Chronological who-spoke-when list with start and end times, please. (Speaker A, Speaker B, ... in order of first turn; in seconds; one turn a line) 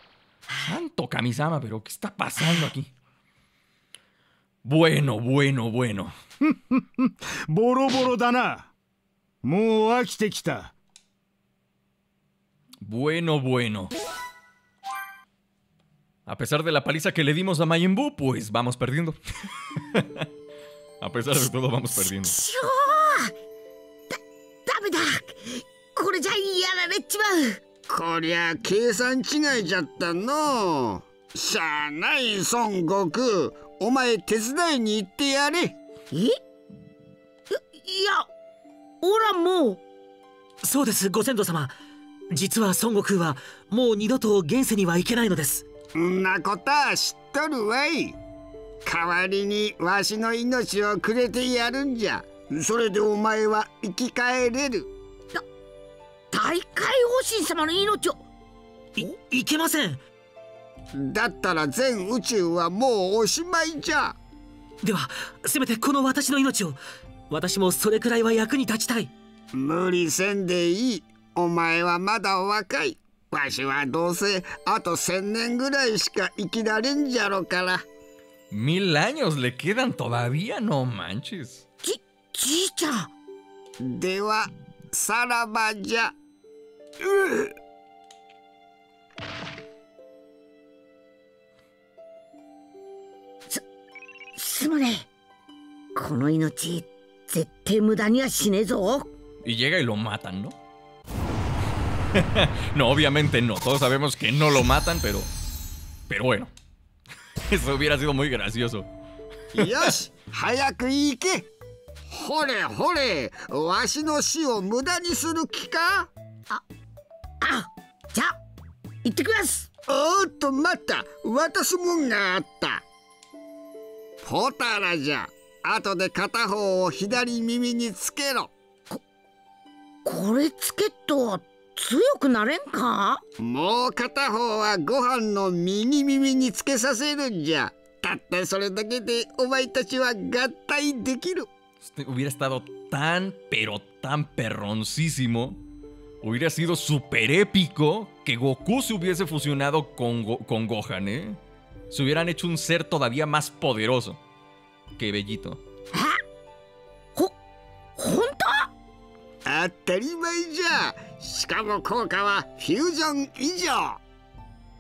Speaker A: 0.6-2.9
Speaker A: 4.6-6.1
Speaker B: 6.5-8.7
Speaker B: 9.4-10.7
Speaker A: 12.8-13.9
Speaker A: 16.3-19.2
Speaker A: 19.9-20.2
Speaker A: 21.0-22.3
Speaker C: 22.0-23.3
Speaker C: 24.1-27.6
Speaker D: 27.9-35.7
Speaker C: 36.1-36.4
Speaker C: 37.5-38.3
Speaker C: 39.0-39.8
Speaker E: 40.6-41.7
Speaker E: 42.3-45.7
Speaker D: 46.0-48.2
Speaker D: 48.8-54.9
Speaker C: 56.3-58.2
Speaker E: 59.0-60.0
Speaker D: 60.9-64.2
Speaker E: 64.8-69.1
Speaker D: 69.5-77.8
Speaker A: 78.5-81.6
Speaker C: 81.8-83.1
Speaker D: 83.8-86.1
Speaker C: 94.3-95.1
Speaker C: 96.0-99.1
Speaker A: 99.4-100.5
Speaker A: 102.1-105.3
Speaker A: 106.1-106.5
Speaker A: 107.5-108.9
Speaker D: 109.5-111.5
Speaker A: 109.6-109.9
Speaker D: 112.1-116.1
Speaker C: 117.4-118.3
Speaker C: 119.0-119.7
Speaker D: 119.9-122.8
Speaker D: 124.2-128.5
Speaker C: 130.0-133.2
Speaker D: 133.4-141.5
Speaker A: 141.8-145.6
Speaker A: 146.2-151.4
Speaker A: 151.9-154.2
Speaker A: 155.0-155.6
Speaker C: 155.9-156.2
Speaker C: 158.0-158.7
Speaker D: 159.4-164.0